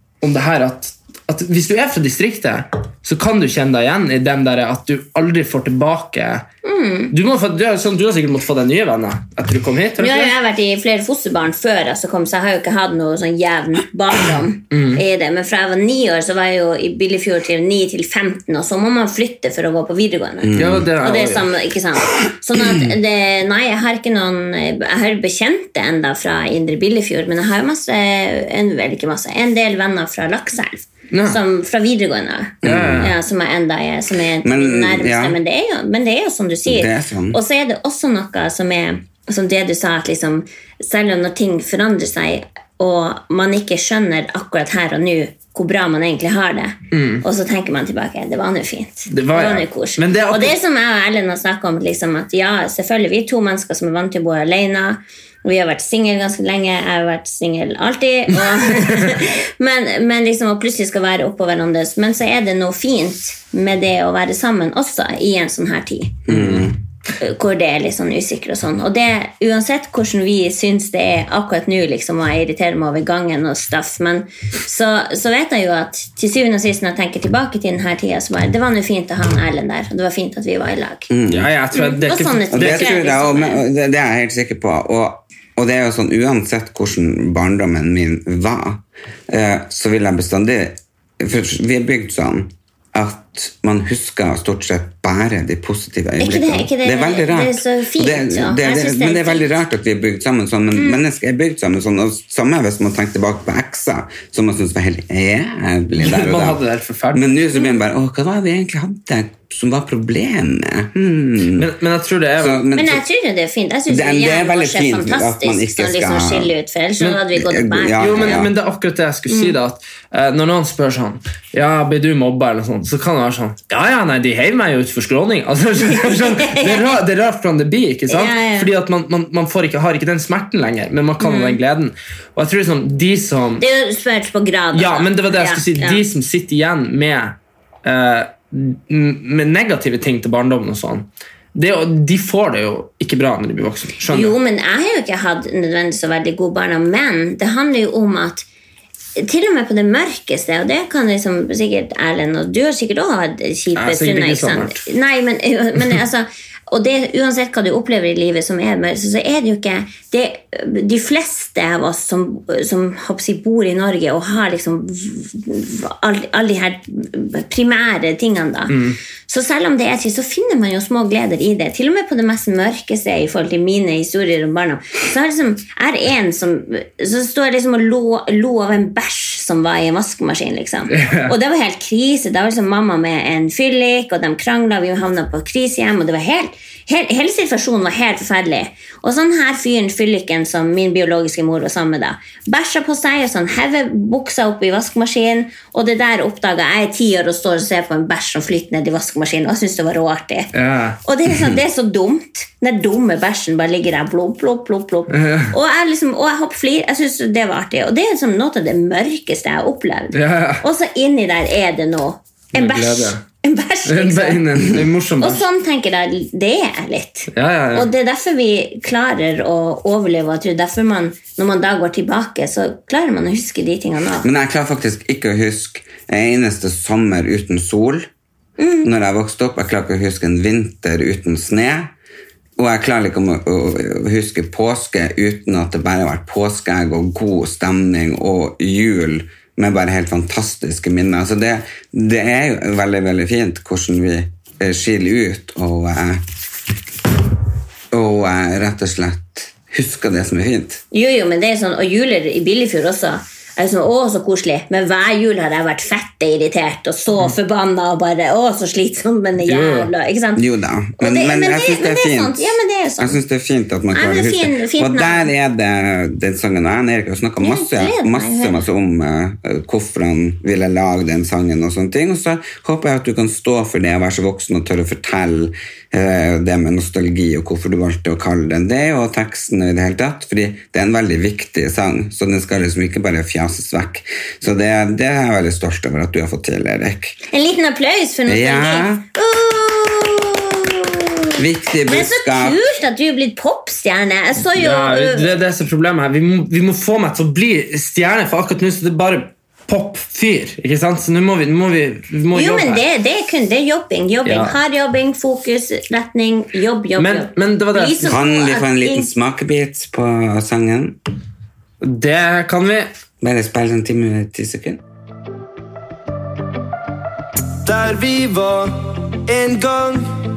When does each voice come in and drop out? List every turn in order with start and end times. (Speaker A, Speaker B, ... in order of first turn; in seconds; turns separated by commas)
Speaker A: 0.2-6.5, Speaker B: 6.6-7.1, Speaker A: 7.1-10.3, Speaker B: 10.0-66.3, Speaker A: 14.7-15.0, Speaker C: 20.4-20.9, Speaker A: 20.6-21.5, Speaker A: 31.1-31.4, Speaker C: 32.6-33.1, Speaker A: 32.6-33.1, Speaker C: 34.4-35.4, Speaker C: 36.6-37.4, Speaker A: 46.9-47.2, Speaker A: 49.1-50.6, Speaker C: 66.3-66.8, Speaker A: 66.3-66.7, Speaker B: 67.2-81.1, Speaker C: 81.1-81.5, Speaker A: 81.3-82.9, Speaker B: 81.7-83.6, Speaker C: 82.5-106.6, Speaker B: 96.2-99.4, Speaker B: 100.7-101.0, Speaker A: 106.0-107.3, Speaker C: 107.1-111.7, Speaker A: 111.5-112.7, Speaker C: 112.4-113.0, Speaker B: 112.7-118.4, Speaker C: 113.9-116.5, Speaker C: 117.3-118.5, Speaker A: 118.0-133.6, Speaker B: 119.3-119.5, Speaker B: 125.9-126.9, Speaker B: 128.1-128.7, Speaker B: 131.2-131.6, Speaker B: 133.6-136.0, Speaker A: 134.7-144.4, Speaker B: 144.1-148.4, Speaker B: 149.2-200.5, Speaker A: 153.8-154.8, Speaker A: 168.7-169.0, Speaker A: 180.9-181.3, Speaker A: 200.5-201.0, Speaker B: 201.0-214.4, Speaker A: 205.1-205.5, Speaker A: 210.1-210.6, Speaker A: 212.5-213.2, Speaker A: 213.8-215.4, Speaker B: 215.2-224.3, Speaker A: 217.3-217.9, Speaker C: 224.2-228.1, Speaker B: 228.6-228.9, Speaker C: 228.8-231.9, Speaker C: 232.6-246.2, Speaker C: 247.9-250.8, Speaker B: 250.9-260.4, Speaker A: 259.5-259.9, Speaker C: 260.4-287.2, Speaker B: 261.0-263.2, Speaker B: 263.9-265.3, Speaker B: 267.4-268.6, Speaker B: 287.3-295.3, Speaker C: 288.3-289.0, Speaker C: 291.4-292.6, Speaker A: 294.5-302.8, Speaker B: 302.3-309.1, Speaker A: 304.2-304.6, Speaker A: 307.0-308.1, Speaker C: 308.0-311.0, Speaker A: 311.8-312.9, Speaker C: 313.2-314.8, Speaker D: 317.6-320.1